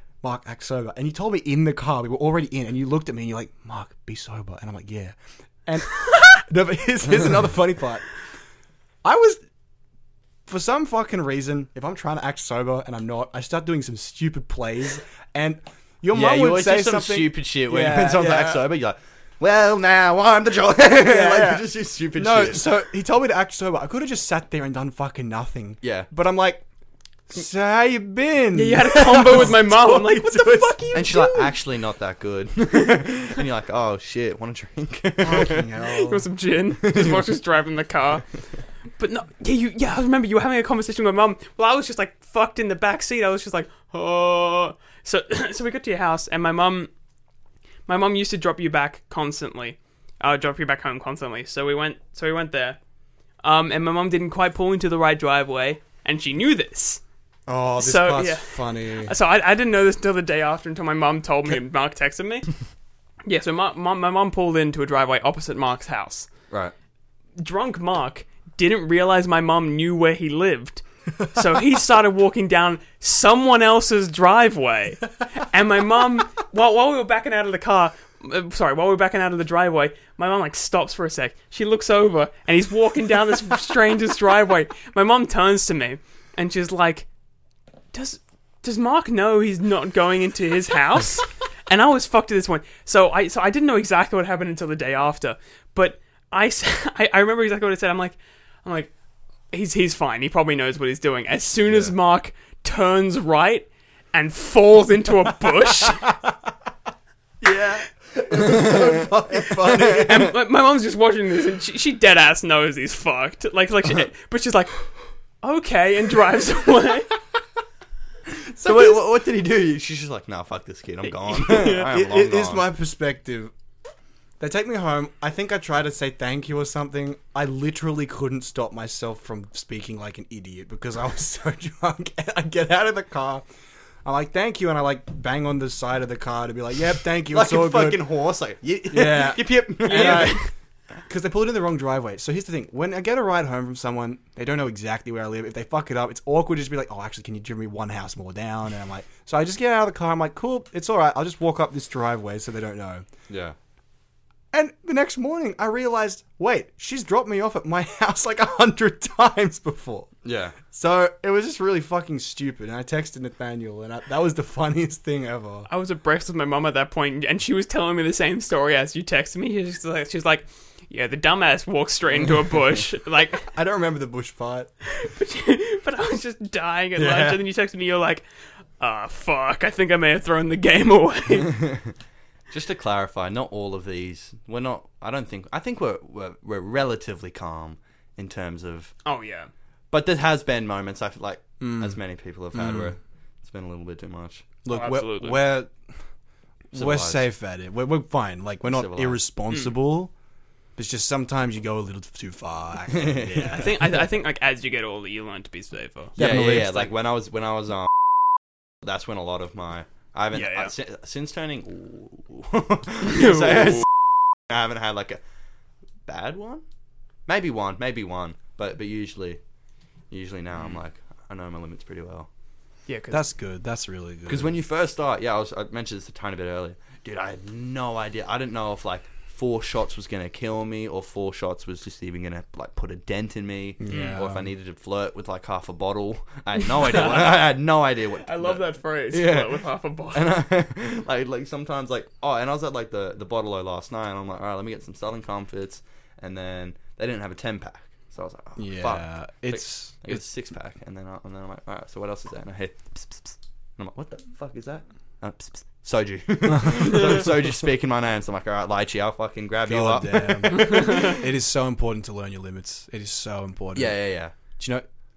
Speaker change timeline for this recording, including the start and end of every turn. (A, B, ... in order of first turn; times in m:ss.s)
0:00.2-0:08.1 A
0:09.0-0:09.4 A
0:10.5-0:18.7 A
0:16.1-0:22.8 B
0:21.0-0:26.6 A
0:25.8-0:26.1 B
0:27.3-0:31.1 A
0:28.5-0:31.5 C
0:30.9-0:35.7 B
0:35.2-0:36.2 A
0:36.0-0:38.2 C
0:36.8-0:37.2 B
0:39.0-0:46.9 C
0:47.9-0:52.8 C
0:53.4-0:57.0 C
0:57.5-0:59.1 A
0:57.8-1:02.5 C
1:03.2-1:06.3 C
1:07.4-1:27.1 C
1:27.9-1:38.9 C
1:39.5-1:46.1 C
1:41.7-1:41.9 B
1:48.1-1:50.3 B
1:48.3-1:50.2 A
1:49.8-1:54.8 C
1:55.4-1:57.1 C
1:58.5-2:02.6 B
1:58.6-1:59.0 A
2:01.3-2:01.8 C
2:01.5-2:03.5 A
2:04.4-2:13.4 A
2:14.0-2:18.1 A
2:17.3-2:20.4 B
2:18.9-2:20.5 A
2:19.8-2:20.4 C
2:21.0-2:33.0 A
2:33.3-2:33.5 B
2:34.5-2:40.1 A
2:40.2-2:40.6 B
2:40.6-2:45.7 A
2:45.7-2:53.5 C
2:53.5-2:54.7 A
2:54.8-2:58.2 C
2:57.0-2:57.4 A
2:58.8-3:01.7 C
3:01.6-3:01.9 B
3:02.5-3:08.9 B
3:09.0-3:09.5 C
3:09.9-3:14.4 B
3:11.6-3:12.0 A
3:12.5-3:12.9 A
3:14.6-3:15.7 A
3:14.7-3:15.4 C
3:16.7-3:17.2 B
3:16.7-3:20.1 A
3:18.6-3:19.2 B
3:20.8-3:23.8 A
3:22.9-3:23.7 B
3:23.4-3:26.2 C
3:26.2-3:26.9 A
3:26.2-3:27.9 B
3:28.8-3:35.2 B
3:30.3-3:30.7 C
3:33.0-3:33.9 C
3:36.0-3:36.6 B
3:37.3-3:39.4 B
3:40.1-3:42.3 B
3:42.9-3:43.3 C
3:43.1-3:44.6 A
3:44.3-4:21.2 B
3:53.8-3:54.5 A
3:53.9-3:54.2 C
3:56.8-3:57.4 C
3:58.2-4:00.4 C
4:08.6-4:10.2 A
4:19.6-4:24.0 A
4:20.7-4:21.1 C
4:23.7-4:24.3 B
4:24.6-4:24.8 A